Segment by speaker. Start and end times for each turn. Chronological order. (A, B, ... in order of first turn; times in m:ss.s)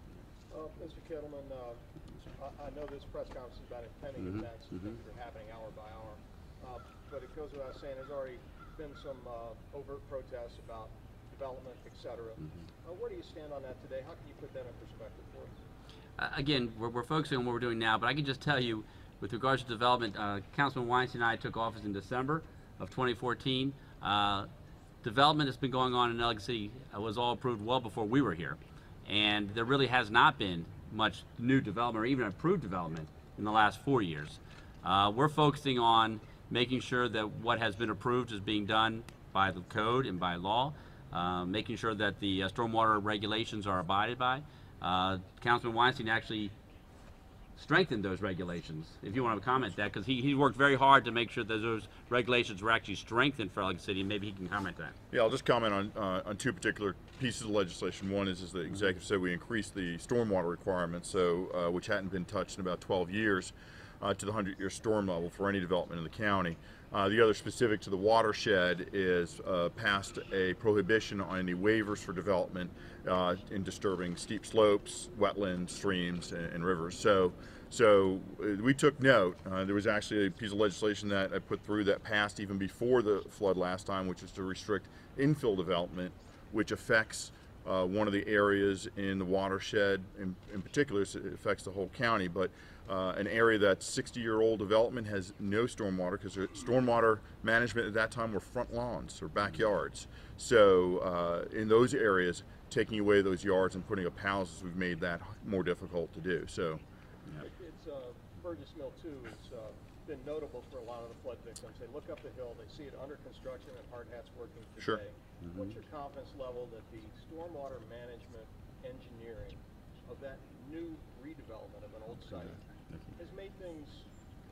0:00.5-0:15.6 A
0:04.2-0:04.9 B
0:16.2-0:24.5 B
0:25.0-0:46.5 B
0:47.6-0:55.0 B
0:55.1-1:46.8 C
1:47.4-2:02.6 A
1:55.4-1:55.8 B
2:03.2-2:04.1 A